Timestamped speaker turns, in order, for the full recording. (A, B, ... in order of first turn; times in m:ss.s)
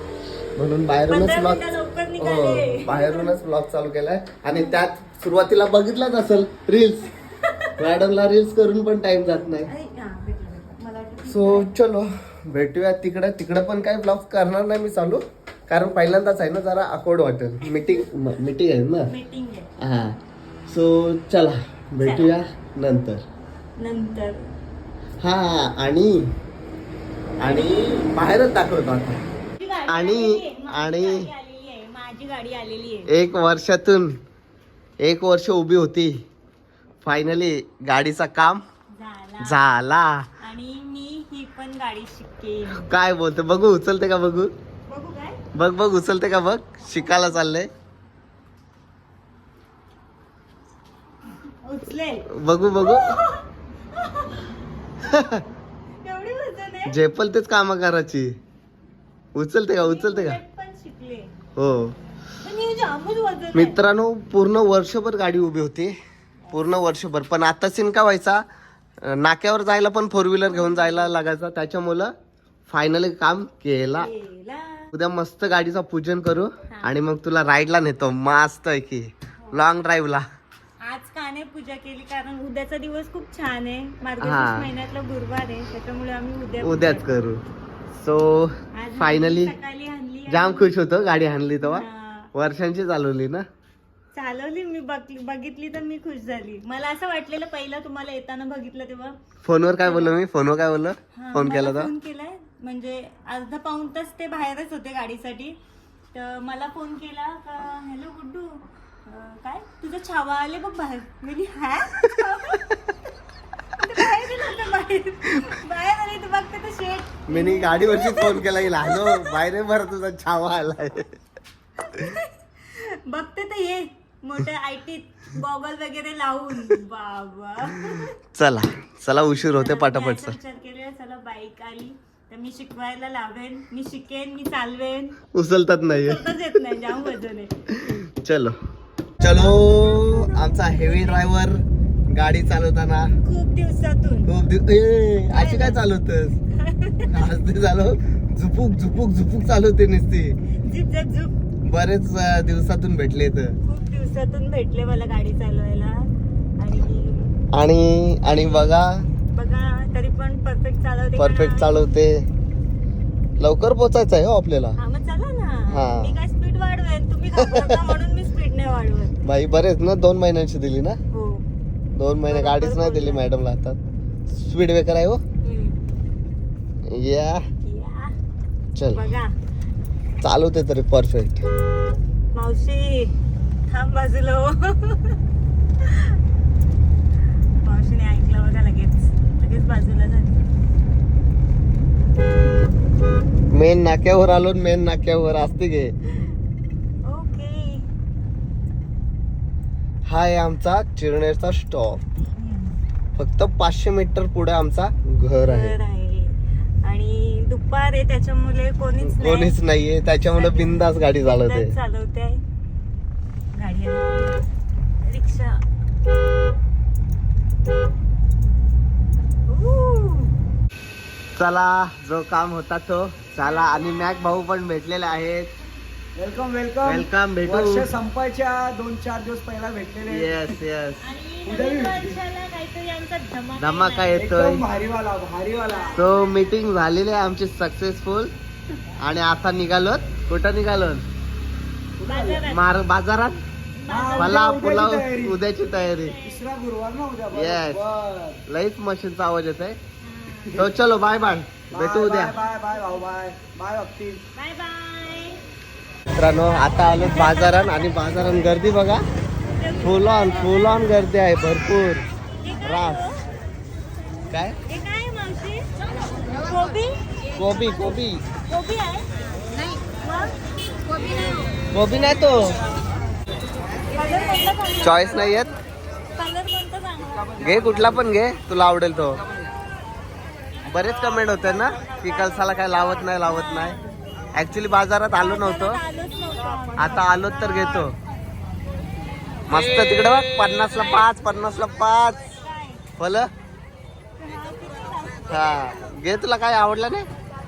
0:00.6-0:01.6 A
0:01.1-0:03.4 B
0:02.2-0:07.1 A
0:04.6-0:04.8 B
0:07.4-0:07.8 B
0:07.8-0:09.7 A
0:09.7-0:11.8 B
0:11.3-0:19.1 A
0:17.6-0:18.1 B
0:19.1-0:19.7 B
0:19.8-0:23.2 A
0:22.0-0:22.4 B
0:23.8-0:24.4 B
0:25.2-0:26.3 A
0:27.4-0:29.2 A
0:27.4-0:28.1 B
0:29.6-0:33.1 B
0:29.9-0:31.3 A
0:33.1-0:34.2 A
0:35.0-0:36.2 A
0:37.0-0:38.6 A
0:38.9-0:39.6 B
0:39.4-0:40.3 A
0:40.4-0:42.9 B
0:42.8-0:44.5 A
0:44.9-0:45.4 B
0:45.5-0:47.7 A
0:51.6-0:54.4 B
0:52.3-0:53.1 A
0:55.0-0:55.4 A
0:56.0-0:57.0 B
0:56.9-0:58.3 A
0:59.4-1:00.4 A
0:59.8-1:01.3 B
1:01.6-1:02.0 A
1:02.4-1:03.8 B
1:03.5-1:06.0 A
1:06.5-1:08.4 A
1:09.0-1:12.1 A
1:10.5-1:11.1 B
1:12.7-1:14.1 A
1:14.0-1:14.9 B
1:14.9-1:20.2 A
1:20.8-1:27.1 B
1:24.2-1:24.7 A
1:26.6-1:27.4 A
1:28.0-1:29.6 A
1:28.8-1:30.8 B
1:30.3-1:33.5 A
1:31.6-1:32.3 B
1:34.1-1:39.2 B
1:39.4-1:41.9 A
1:39.8-1:40.2 B
1:41.2-1:45.6 B
1:46.1-1:52.8 B
1:53.7-1:59.4 B
1:57.3-2:01.1 A
2:01.9-2:08.2 B
2:08.3-2:10.4 A
2:09.4-2:15.2 B
2:15.3-2:16.3 A
2:16.0-2:17.5 B
2:17.7-2:18.6 A
2:19.2-2:21.6 A
2:19.2-2:21.3 B
2:22.1-2:23.1 A
2:23.2-2:24.3 B
2:24.3-2:26.4 A
2:25.3-2:25.8 B
2:26.6-2:27.3 B
2:27.0-2:30.4 A
2:30.6-2:31.3 B
2:31.7-2:33.6 A
2:33.6-2:36.1 B
2:36.6-2:37.4 B
2:37.5-2:39.0 A
2:38.3-2:38.8 B
2:39.3-2:42.0 B
2:41.2-2:42.3 A
2:43.4-2:44.8 A
2:44.8-2:49.2 B
2:45.7-2:46.2 A
2:47.4-2:47.9 A
2:49.2-2:51.0 A
2:51.1-2:51.4 B
2:52.0-2:55.2 A
2:52.3-2:53.2 B
2:55.4-2:55.8 B
2:56.9-2:57.4 A
2:57.6-2:58.2 B
2:58.8-2:59.0 A
2:58.9-2:59.3 B
3:00.2-3:01.4 A
3:02.4-3:03.2 B
3:03.7-3:05.2 B
3:05.8-3:06.2 B
3:07.6-3:10.5 B
3:13.5-3:15.9 A
3:17.0-3:17.9 B
3:20.1-3:22.0 A
3:22.4-3:22.8 B
3:23.2-3:25.8 A
3:25.4-3:29.6 B
3:29.0-3:31.7 A
3:30.3-3:32.4 B
3:33.6-3:34.4 B
3:35.0-3:35.6 B
3:39.5-3:40.4 B
3:41.4-3:45.5 A
3:43.4-3:44.4 B
3:46.2-3:50.5 C
3:46.8-3:47.9 A
3:50.0-3:51.1 A
3:51.0-3:54.2 B
3:51.5-3:52.2 C
3:53.6-3:54.6 A
3:54.1-3:56.0 C
3:55.7-3:56.2 B
3:56.0-3:58.3 A
3:59.0-4:01.0 A
4:02.0-4:02.5 C
4:02.0-4:02.7 B
4:02.5-4:03.4 A
4:03.8-4:04.5 B
4:03.9-4:05.4 C
4:04.2-4:06.2 A
4:05.7-4:06.4 B
4:06.2-4:08.4 C
4:07.3-4:07.8 A
4:08.5-4:09.8 A
4:10.0-4:10.6 B
4:10.6-4:12.4 A
4:11.7-4:14.2 C
4:12.4-4:12.9 B
4:14.4-4:15.4 B
4:16.2-4:19.0 A
4:16.6-4:17.9 B
4:19.6-4:20.8 B
4:19.8-4:22.0 A
4:22.4-4:23.2 B
4:22.6-4:23.0 A
4:24.3-4:24.6 A
4:24.7-4:25.7 B
4:26.4-4:27.0 B
4:27.4-4:28.2 A
4:28.5-4:29.3 B
4:30.0-4:30.4 B
4:31.0-4:31.6 B
4:31.7-4:32.6 A
4:33.9-4:35.4 B
4:34.8-4:35.5 A
4:36.2-4:37.4 B
4:37.4-4:39.2 A
4:40.7-4:43.8 A
4:41.2-4:44.0 B
4:44.4-4:45.8 A
4:45.1-4:47.9 B
4:46.8-4:48.0 A
4:49.5-4:52.3 A
4:50.7-4:51.1 B
4:52.3-4:52.8 B
4:53.0-4:53.3 A
4:54.2-4:55.7 B
4:55.3-4:57.1 A